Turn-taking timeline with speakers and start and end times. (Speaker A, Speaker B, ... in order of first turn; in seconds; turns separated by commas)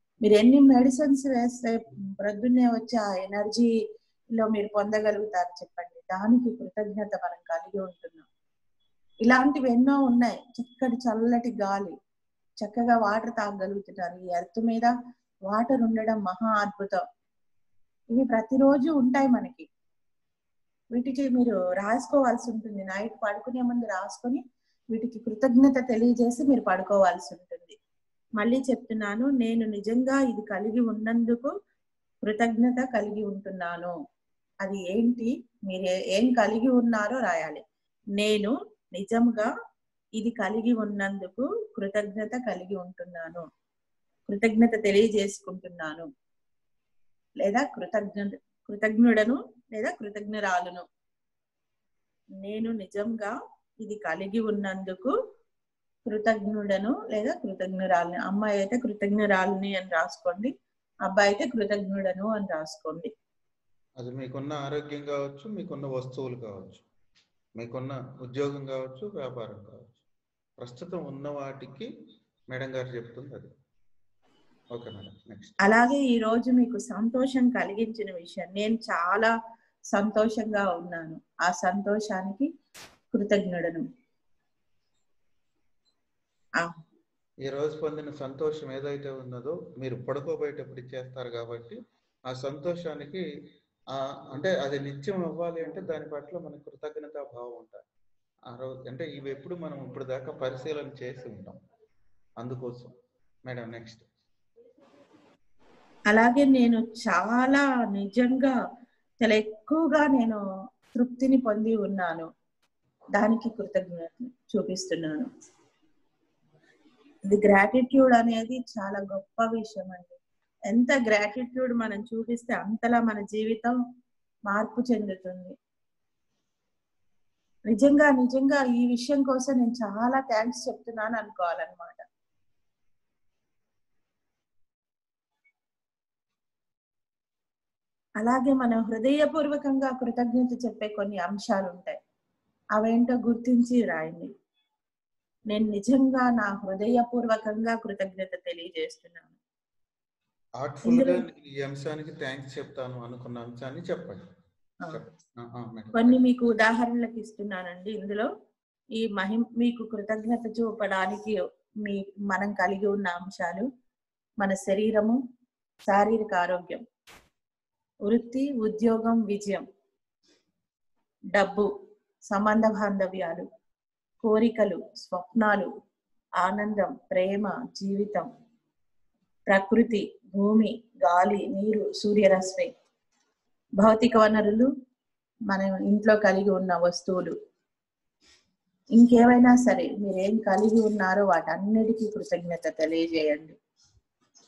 Speaker A: 0.2-3.7, Speaker A: 4.3-8.2, Speaker A: 9.2-11.9, Speaker A: 12.6-14.9, Speaker A: 15.5-17.0, Speaker A: 18.1-19.7, Speaker A: 20.9-24.4, Speaker A: 24.9-27.8, Speaker A: 28.4-31.5, Speaker A: 32.2-33.9, Speaker A: 34.6-37.6, Speaker A: 38.2-39.5, Speaker A: 40.2-43.4, Speaker A: 44.3-46.1, Speaker A: 47.4-50.9, Speaker A: 52.4-55.1, Speaker A: 56.1-60.5, Speaker A: 61.0-63.1, Speaker B: 64.0-66.8, Speaker B: 67.6-70.0, Speaker B: 70.6-71.9, Speaker B: 72.5-73.5, Speaker B: 74.7-75.6, Speaker A: 75.6-79.3, Speaker A: 79.9-82.5, Speaker A: 83.1-83.8, Speaker B: 87.5-93.2, Speaker B: 93.9-97.8, Speaker B: 98.5-101.6, Speaker B: 102.4-102.9, Speaker B: 103.5-104.1, Speaker A: 106.1-108.5, Speaker A: 109.2-110.4, Speaker A: 110.9-112.3, Speaker A: 113.2-115.3, Speaker A: 117.3-120.2, Speaker A: 120.7-123.7, Speaker A: 124.5-125.5, Speaker A: 127.7-132.0, Speaker A: 138.2-142.0, Speaker A: 142.8-144.3, Speaker A: 145.5-149.3, Speaker B: 150.6-154.2, Speaker A: 150.8-151.2, Speaker B: 154.9-156.2, Speaker A: 155.9-158.3, Speaker A: 159.0-163.7, Speaker A: 164.4-165.2, Speaker A: 165.9-166.8, Speaker A: 168.1-169.6, Speaker A: 171.3-171.7, Speaker A: 172.3-173.5, Speaker A: 174.2-175.7, Speaker A: 176.4-178.3, Speaker A: 179.5-182.7, Speaker A: 183.8-184.7, Speaker A: 185.5-187.3, Speaker A: 189.0-193.6